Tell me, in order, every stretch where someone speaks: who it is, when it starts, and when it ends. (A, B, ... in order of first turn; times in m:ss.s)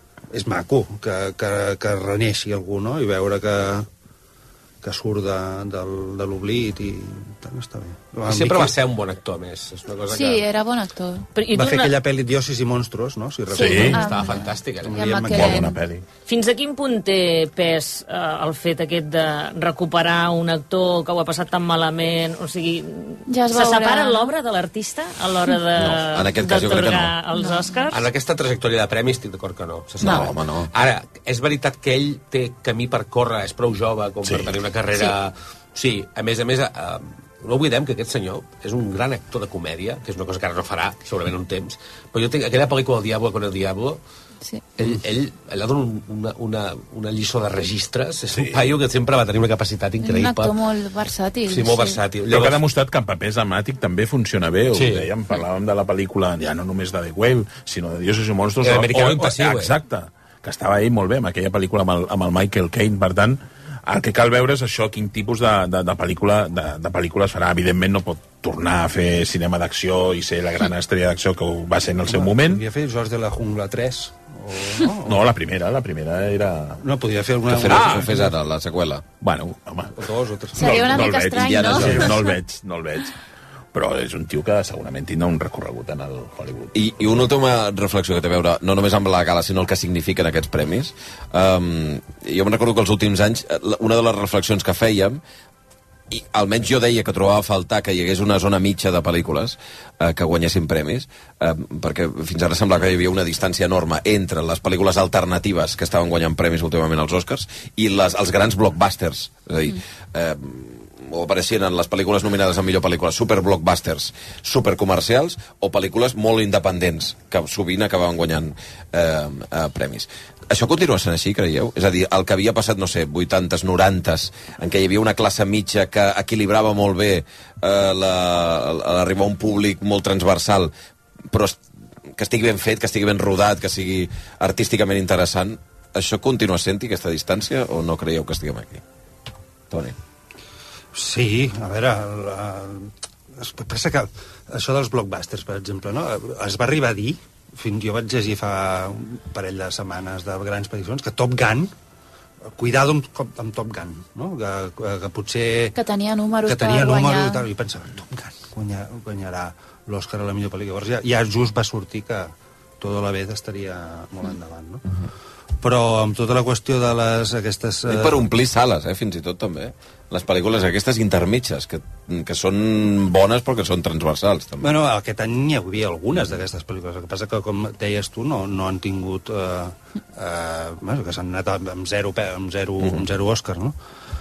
0:00.3-0:03.9 A
0:04.8-0:08.8 A
0:08.3-0:10.5 B
0:10.1-0:11.3 C
0:11.3-0:11.9 D
0:11.5-0:14.2 A
0:13.5-0:15.8 C
0:13.6-0:14.0 E
0:14.0-0:15.0 B
0:14.8-0:15.7 A
0:15.3-0:16.0 E
0:16.3-0:28.0 D
0:23.3-0:24.3 C
0:25.8-0:27.1 F
0:27.4-0:27.7 C
0:27.9-0:44.0 B
0:30.0-0:30.7 F
0:34.2-0:34.6 E
0:44.8-0:50.5 B
0:48.3-0:48.7 E
0:50.0-0:52.0 C
0:51.4-0:52.6 B
0:52.3-1:12.6 E
0:54.7-0:55.1 B
0:58.6-0:59.7 B
1:12.0-1:15.2 A
1:15.0-1:16.8 E
1:16.8-1:18.3 A
1:17.5-1:19.0 F
1:17.6-1:18.2 E
1:19.2-1:23.2 E
1:20.0-1:22.2 A
1:20.6-1:22.4 C
1:23.7-1:27.2 E
1:26.7-1:35.2 F
1:36.1-2:10.7 F
2:11.3-2:11.6 F
2:12.2-2:18.8 F
2:20.9-2:31.7 A
2:32.6-2:35.8 A
2:35.8-2:37.4 C
2:36.4-2:44.8 A
2:45.6-2:48.2 A
2:47.8-2:54.7 F
2:54.6-3:03.7 A